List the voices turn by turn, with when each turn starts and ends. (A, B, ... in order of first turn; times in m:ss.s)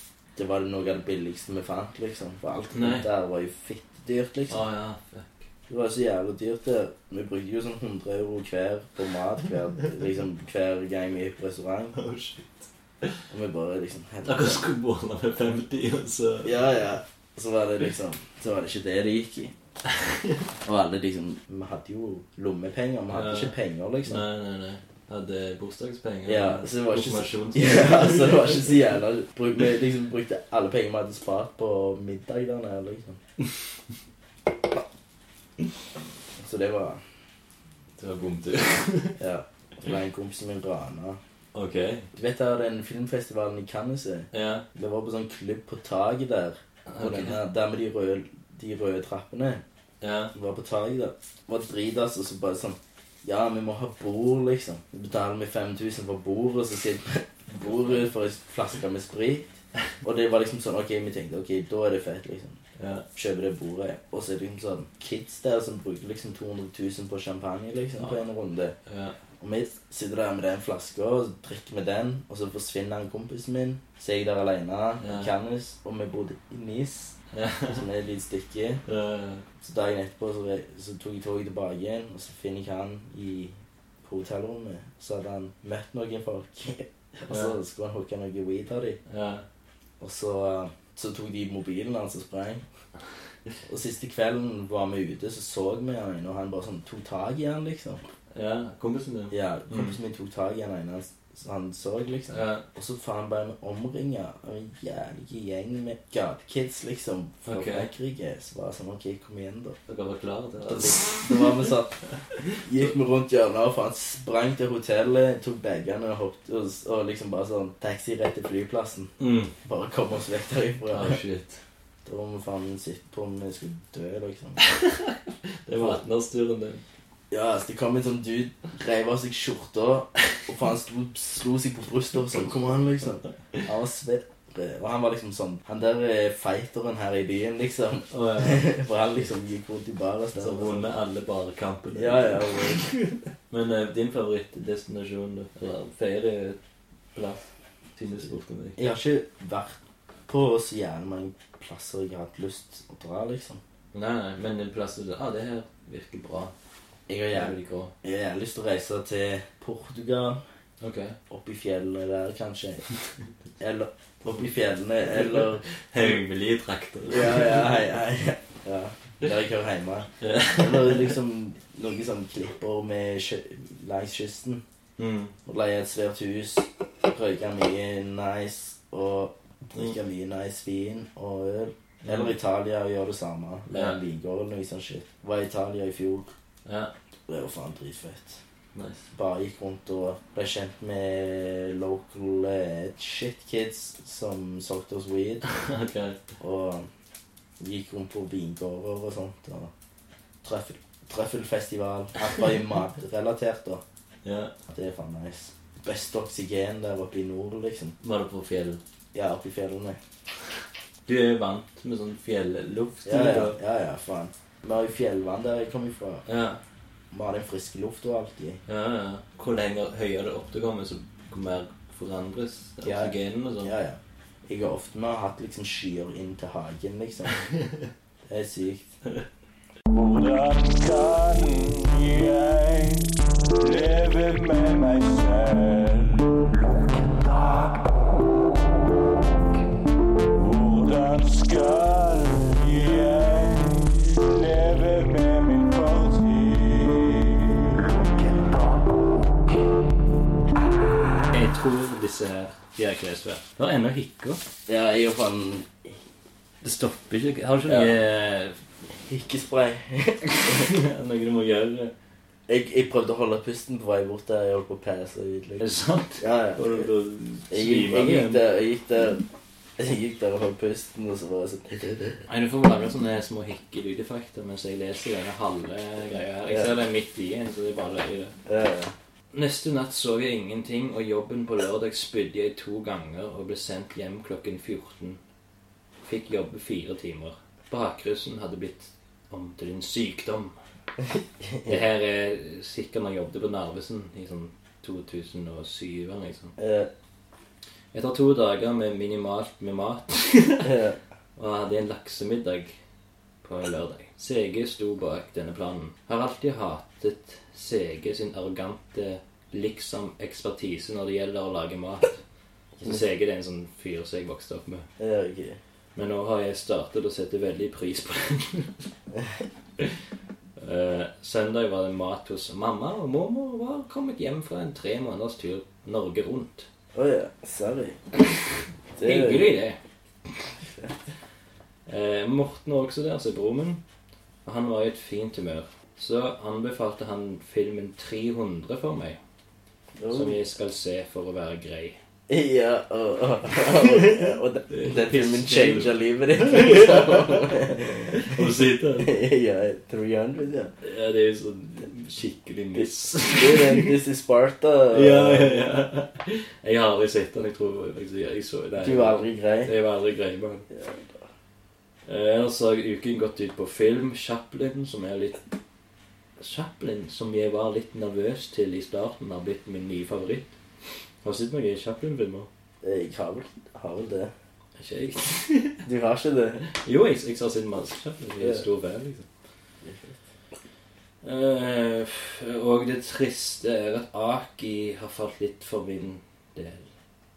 0:00.4-0:04.6 A
0:02.7-0:03.1 B
0:04.5-0:05.5 B
0:05.7-0:12.0 A
0:11.9-0:13.2 B
0:13.3-0:14.6 A
0:14.2-0:16.6 B
0:16.4-0:19.5 A
0:19.9-0:20.4 B
0:20.6-0:24.2 A
0:23.1-0:23.6 B
0:24.1-0:28.6 B
0:26.3-0:33.2 A
0:36.4-0:37.0 A
0:38.0-0:39.2 B
0:39.2-0:41.2 A
0:41.5-0:42.1 B
0:42.1-0:49.6 A
0:44.3-0:44.6 B
0:46.9-0:47.4 B
0:50.0-0:50.3 B
0:50.3-0:59.5 A
0:57.7-0:58.1 B
1:00.0-1:02.6 A
1:02.8-1:03.1 B
1:03.1-1:08.8 A
1:08.9-1:09.2 B
1:09.4-1:17.2 A
1:15.0-1:15.3 B
1:17.3-1:17.8 B
1:17.7-1:18.8 A
1:18.9-1:19.4 B
1:19.6-1:29.0 A
1:27.3-1:27.6 B
1:29.1-1:29.4 B
1:30.0-1:32.6 A
1:33.6-1:38.0 A
1:38.3-1:40.0 B
1:39.3-1:49.8 A
1:42.3-1:42.6 B
1:47.5-1:47.9 B
1:49.9-1:51.7 B
1:50.7-1:52.0 A
1:52.3-1:52.9 B
1:52.6-2:01.2 A
1:59.2-1:59.5 B
2:00.9-2:01.6 B
2:02.0-2:04.6 A
2:04.6-2:06.8 B
2:05.8-2:06.0 A
2:07.3-2:20.9 A
2:18.1-2:18.7 B
2:20.4-2:26.6 B
2:21.9-2:22.9 A
2:27.1-2:28.8 B
2:28.8-2:33.6 A
2:33.9-2:36.5 B
2:37.1-2:40.4 A
2:37.3-2:37.9 B
2:40.8-2:41.2 B
2:41.3-2:42.8 A
2:43.6-2:45.6 A
2:45.0-2:47.9 B
2:47.1-2:54.6 A
2:50.2-2:51.2 B
2:55.0-2:55.4 B
2:55.5-3:06.3 A
3:02.0-3:02.4 B
3:03.7-3:04.0 B
3:06.6-3:06.9 B
3:07.3-3:08.4 A
3:08.7-3:09.1 B
3:09.1-3:15.5 A
3:15.5-3:16.2 B
3:16.4-3:16.9 A
3:17.6-3:19.7 A
3:20.4-3:23.8 A
3:24.2-3:24.5 B
3:24.7-3:28.0 A
3:28.0-3:28.8 B
3:29.1-3:30.0 A
3:31.1-3:33.6 B
3:33.0-3:36.2 A
3:36.3-3:36.6 B
3:37.1-3:38.6 A
3:38.7-3:43.7 B
3:42.8-3:47.4 A
3:47.4-3:47.9 B
3:48.2-3:48.9 A
3:49.9-3:57.9 C
4:00.4-4:08.8 C
4:11.3-4:14.4 B
4:14.7-4:16.0 A
4:16.6-4:18.6 B
4:17.7-4:18.0 A
4:18.9-4:20.8 A
4:20.3-4:21.9 B
4:22.5-4:25.7 A
4:25.6-4:28.4 B
4:26.2-4:26.9 A
4:27.5-4:29.2 A
4:29.8-4:32.2 A
4:32.3-4:38.4 B
4:36.5-4:36.7 A
4:38.5-4:38.9 A
4:39.3-4:45.2 B
4:46.0-4:50.6 B
4:51.4-4:51.8 A
4:51.7-4:56.6 B
4:56.6-4:56.9 A
4:57.9-5:00.7 B
5:00.6-5:01.0 A
5:01.4-5:02.8 B
5:03.4-5:12.2 B
5:12.8-5:14.9 B
5:15.0-5:15.6 A
5:16.0-5:18.8 B
5:19.1-5:19.4 A
5:20.6-5:26.7 B
5:27.0-5:28.0 A
5:29.0-5:29.5 A
5:29.0-5:29.8 B
5:30.6-5:30.9 A
5:31.9-5:33.8 B
5:34.4-5:39.2 B
5:40.0-5:40.4 A
5:40.1-5:42.0 B
5:42.3-5:50.7 A
5:43.7-5:49.2 B
5:50.8-5:54.0 B
5:52.8-5:55.7 A
5:54.9-6:00.7 B
5:58.8-5:59.7 A
6:00.7-6:01.2 A
6:02.1-6:05.4 B
6:06.4-6:10.5 B
6:11.2-6:12.5 B
6:12.8-6:14.3 A
6:14.8-6:15.8 B
6:15.8-6:16.7 A
6:16.7-6:19.3 B
6:18.4-6:18.7 A
6:19.8-6:20.2 A
6:21.2-6:26.9 B